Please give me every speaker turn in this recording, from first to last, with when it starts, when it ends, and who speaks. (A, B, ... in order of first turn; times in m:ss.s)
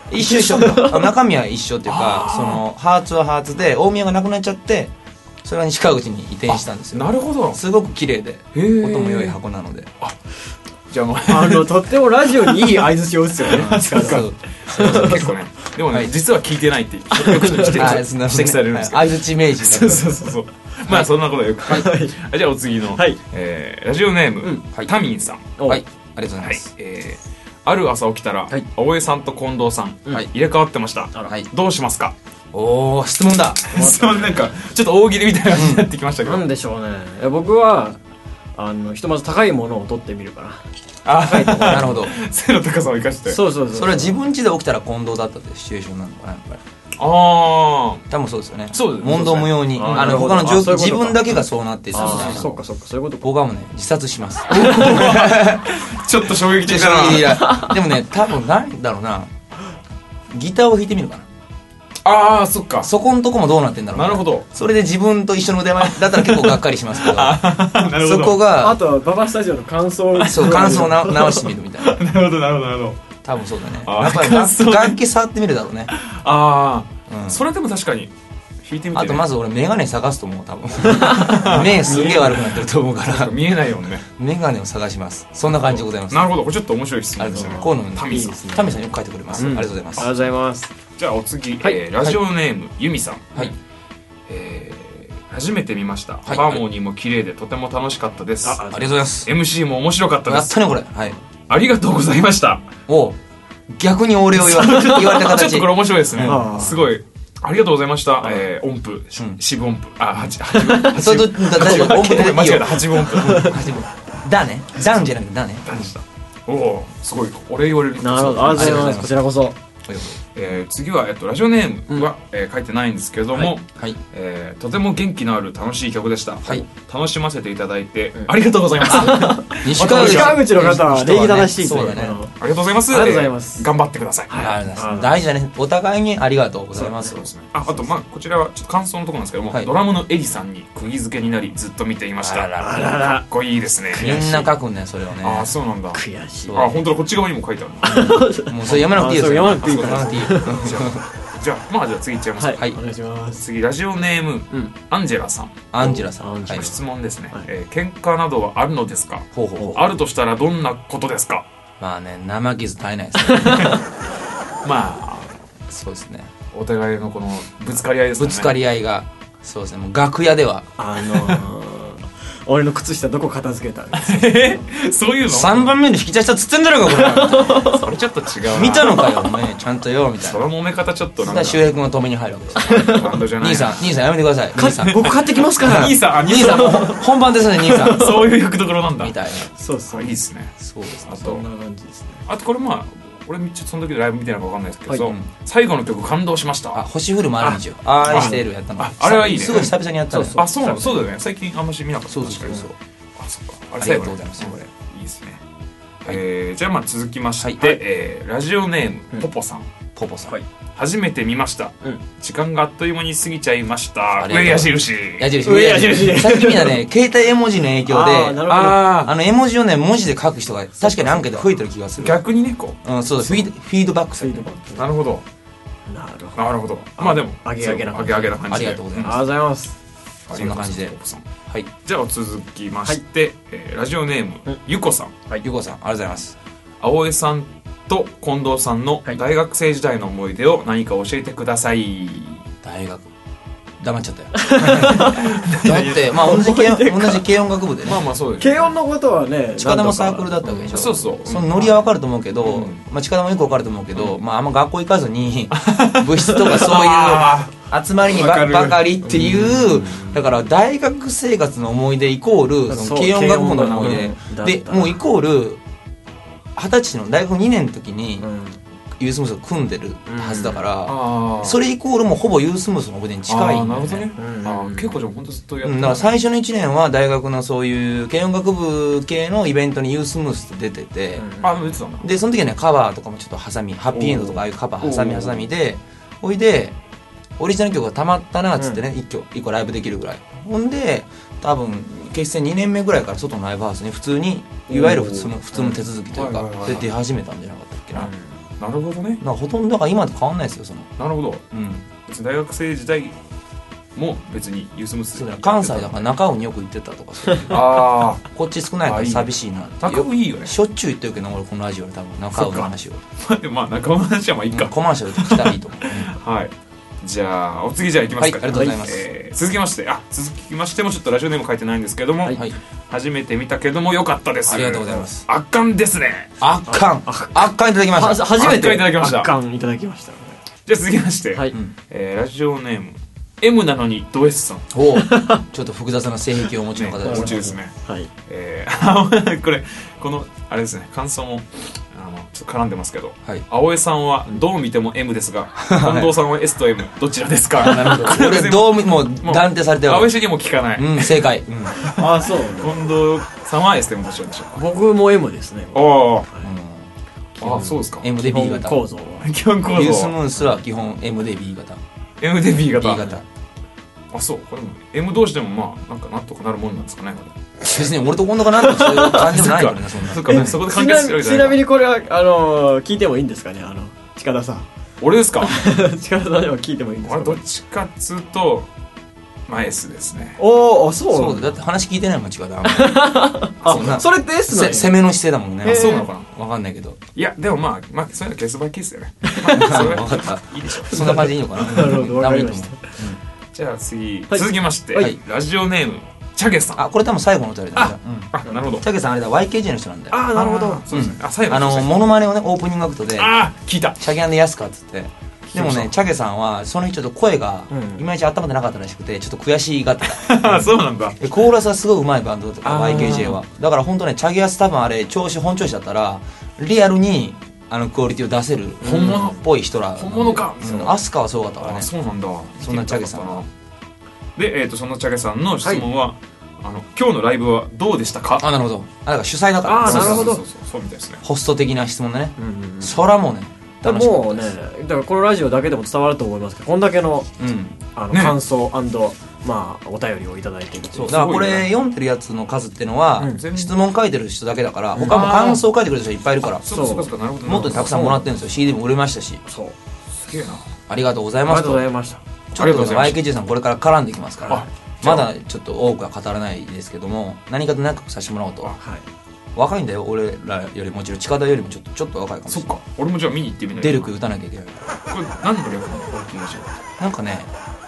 0:00.1-0:04.9 A
0:00.2-0:01.1 B
0:01.9-0:02.6 C
0:05.4-0:09.9 A
0:06.5-0:07.6 C
0:08.5-0:09.4 C
0:10.9-0:11.7 C
0:11.3-0:15.3 B
0:12.4-0:12.9 C
0:13.4-0:25.5 C
0:13.9-0:15.4 A
0:17.1-0:18.0 B
0:17.6-0:20.1 A
0:21.6-0:22.2 B
0:22.9-0:23.2 B
0:25.6-0:25.8 B
0:25.6-0:26.7 A
0:26.4-0:32.2 C
0:32.5-0:33.8 A
0:33.7-0:34.5 B
0:33.7-0:36.5 C
0:35.5-0:35.9 A
0:36.2-0:38.0 B
0:38.6-0:40.6 B
0:41.0-0:43.4 C
0:41.2-0:41.9 B
0:41.6-0:42.1 A
0:43.3-0:44.2 B
0:43.7-0:46.6 A
0:47.0-0:48.0 C
0:48.1-0:52.5 A
0:48.7-0:50.4 C
0:49.7-0:51.4 B
0:51.9-0:52.5 C
0:51.9-0:53.3 B
0:53.2-0:55.6 A
0:54.5-0:57.5 C
0:56.6-0:59.3 A
1:00.3-1:01.2 A
1:02.0-1:02.9 C
1:02.8-1:07.4 A
1:03.9-1:04.5 C
1:05.9-1:08.4 C
1:08.0-1:08.8 A
1:08.6-1:11.4 B
1:10.2-1:10.7 C
1:10.3-1:12.0 A
1:11.3-1:13.0 C
1:13.2-1:15.9 A
1:13.8-1:15.0 C
1:15.9-1:18.1 C
1:17.1-1:17.4 A
1:18.6-1:19.3 C
1:18.9-1:23.4 A
1:20.9-1:21.4 B
1:21.0-1:24.0 C
1:24.2-1:26.3 A
1:25.5-1:28.4 C
1:27.2-1:30.1 A
1:27.3-1:28.8 B
1:29.4-1:30.7 B
1:31.0-1:33.5 C
1:34.3-1:38.7 C
1:36.3-1:36.6 A
1:38.4-1:38.9 B
1:38.7-1:39.3 A
1:39.3-1:40.6 C
1:40.3-1:41.2 A
1:41.5-1:42.6 C
1:42.9-1:43.2 A
1:43.7-1:46.5 A
1:44.4-1:53.5 C
1:44.6-1:45.2 B
1:46.2-1:46.9 B
1:50.5-1:51.1 B
1:50.9-1:55.8 A
1:51.6-1:52.2 B
1:53.1-1:53.5 B
1:55.7-1:59.1 C
1:58.0-1:59.6 B
1:58.5-1:59.2 A
1:59.9-2:00.2 A
2:00.4-2:10.4 C
2:08.8-2:12.3 B
2:08.9-2:12.2 A
2:12.4-2:14.4 C
2:12.9-2:13.7 B
2:14.3-2:15.2 B
2:14.3-2:17.9 A
2:16.8-2:17.2 B
2:17.1-2:24.3 C
2:22.2-2:22.9 A
2:22.6-2:23.3 B
2:23.9-2:24.5 B
2:24.0-2:25.5 A
2:25.2-2:28.2 C
2:25.9-2:26.6 B
2:26.5-2:26.8 A
2:27.8-2:30.8 B
2:27.9-2:31.0 A
2:29.6-2:32.6 C
2:32.4-2:33.4 B
2:33.3-2:41.4 C
2:35.7-2:36.7 A
2:35.8-2:36.8 B
2:39.3-2:39.8 A
2:41.8-2:43.7 A
2:43.3-2:43.8 B
2:43.4-2:43.8 C
2:44.6-2:45.4 C
2:45.7-2:46.3 A
2:46.5-2:48.6 C
2:48.2-2:50.7 A
2:50.8-2:54.6 B
2:51.1-2:51.4 C
2:53.9-2:55.8 C
2:55.3-2:57.7 A
2:56.9-2:57.9 B
2:57.7-2:59.0 C
2:58.5-3:00.4 A
2:58.8-2:59.2 B
3:00.2-3:01.7 C
3:01.2-3:08.2 A
3:02.6-3:03.3 B
3:02.8-3:03.8 C
3:04.6-3:07.0 B
3:04.6-3:07.0 C
3:07.6-3:08.3 B
3:07.7-3:10.5 C
3:09.0-3:09.5 A
3:09.6-3:10.2 B
3:10.6-3:11.1 A
3:11.0-3:11.4 C
3:11.2-3:12.2 B
3:12.3-3:16.8 C
3:15.0-3:15.3 A
3:16.7-3:21.1 A
3:17.4-3:19.8 C
3:18.1-3:18.4 B
3:20.1-3:20.5 B
3:20.3-3:22.7 C
3:22.1-3:22.8 A
3:23.2-3:25.4 C
3:23.8-3:24.7 A
3:26.0-3:29.7 C
3:27.4-3:27.8 A
3:30.0-3:30.4 A
3:30.8-3:35.4 C
3:34.2-3:42.2 A
3:35.4-3:36.8 B
3:37.9-3:39.0 B
3:38.5-3:39.2 C
3:40.8-3:41.5 B
3:42.0-3:43.5 C
3:42.8-3:44.5 A
3:44.2-3:44.9 B
3:44.8-3:45.2 C
3:45.9-3:46.4 B
3:46.4-3:49.2 C
3:47.0-3:49.8 B
3:48.5-3:49.2 A
3:50.3-3:51.2 C
3:50.3-3:51.0 A
3:51.8-3:55.2 C
3:55.4-3:56.4 A
3:56.8-4:02.5 C
4:02.6-4:03.1 A
4:03.8-4:08.0 A
4:04.4-4:05.4 B
4:04.8-4:06.3 C
4:06.1-4:07.2 B
4:07.8-4:08.7 C
4:08.4-4:10.8 B
4:09.6-4:25.6 A
4:10.7-4:11.8 C
4:12.4-4:12.8 C
4:15.6-4:17.5 C
4:18.0-4:18.8 C
4:19.1-4:20.2 B
4:22.7-4:25.0 B
4:23.7-4:24.1 C
4:26.6-4:28.3 A
4:28.2-4:28.6 B
4:29.0-4:34.1 A
4:30.1-4:30.6 B
4:30.9-4:31.6 C
4:33.3-4:36.1 C
4:34.2-4:35.0 B
4:35.6-4:41.3 A
4:41.2-4:41.6 B
4:41.4-4:42.0 C
4:42.0-4:46.8 A
4:43.9-4:45.5 C
4:47.4-4:58.1 A
4:54.7-4:55.8 B
4:54.8-4:55.3 C
4:56.1-4:56.9 C
4:58.0-4:58.3 B
4:58.6-4:59.2 C
4:59.2-5:00.9 A
5:01.0-5:01.4 C
5:01.5-5:01.9 A
5:02.1-5:03.2 C
5:04.0-5:06.0 C
5:05.2-5:13.0 A
5:07.5-5:08.2 C
5:08.8-5:10.5 C
5:12.4-5:12.7 C
5:13.2-5:26.3 C
5:14.5-5:16.2 A
5:18.2-5:19.0 A
5:18.5-5:18.8 B
5:22.3-5:22.6 A
5:24.5-5:25.3 A
5:26.4-5:28.4 A
5:26.7-5:30.4 B
5:28.4-5:29.3 C
5:30.7-5:34.7 C
5:34.7-5:37.5 A
5:35.0-5:35.4 B
5:36.8-5:37.7 C
5:37.0-5:38.1 B
5:38.3-5:51.2 C
5:45.6-5:46.1 A
5:47.6-5:50.1 A
5:50.8-5:51.9 A
5:51.8-5:54.6 C
5:51.9-5:52.8 B
5:54.6-5:56.5 B
5:55.7-5:56.3 C
5:56.4-5:56.9 A
5:57.4-5:59.4 B
5:57.4-5:58.1 C
5:58.0-5:58.8 A
5:59.2-6:00.2 C
5:59.7-6:01.8 A
6:02.2-6:03.2 C
6:02.8-6:03.2 A
6:04.1-6:07.4 C
6:07.6-6:10.6 A
6:08.7-6:09.3 B
6:08.9-6:11.6 C
6:10.3-6:14.7 B
6:15.0-6:15.6 C
6:15.4-6:17.4 B
6:17.0-6:18.7 C
6:19.5-6:20.4 C
6:20.4-6:21.5 B
6:21.1-6:27.0 A
6:22.6-6:24.9 B
6:23.6-6:24.0 C
6:25.6-6:26.1 B
6:25.7-6:26.3 C
6:27.2-6:31.2 C
6:29.2-6:29.8 B
6:29.5-6:33.2 A
6:30.9-6:32.9 B
6:33.5-6:36.8 C
6:34.3-6:35.1 B
6:36.8-6:40.3 A
6:37.8-6:38.8 C
6:40.1-6:40.8 B
6:40.3-6:42.0 C
6:40.9-6:43.3 A
6:43.2-6:44.0 C
6:44.0-7:01.9 A
6:45.5-6:45.9 C
6:47.7-6:48.0 B
6:50.0-6:51.2 C
6:52.6-6:53.4 C
6:58.8-6:59.4 C
6:58.9-6:59.3 B
7:00.0-7:01.0 C
7:01.6-7:03.5 C
7:02.6-7:03.4 A
7:04.4-7:08.5 C
7:08.4-7:10.3 A
7:09.7-7:10.4 B
7:09.8-7:11.2 C
7:11.2-7:14.6 A
7:12.4-7:13.0 B
7:13.8-7:17.3 B
7:17.4-7:17.8 A
7:17.9-7:21.2 B
7:18.1-7:18.4 C
7:20.9-7:26.7 A
7:21.1-7:21.7 C
7:23.3-7:23.8 C
7:25.0-7:25.2 B
7:25.1-7:25.6 C
7:26.5-7:28.1 C
7:26.7-7:27.1 B
7:27.4-7:29.4 A
7:27.7-7:28.3 B
7:29.5-7:29.8 B
7:30.3-7:30.7 C
7:30.9-7:31.9 A
7:31.5-7:32.2 B
7:32.5-7:38.8 A
7:32.6-7:33.2 C
7:34.5-7:35.3 C
7:38.8-7:39.0 B
7:39.6-7:42.8 A
7:42.5-7:44.1 C
7:43.8-7:44.9 A
7:45.1-7:46.7 C
7:47.0-7:47.5 A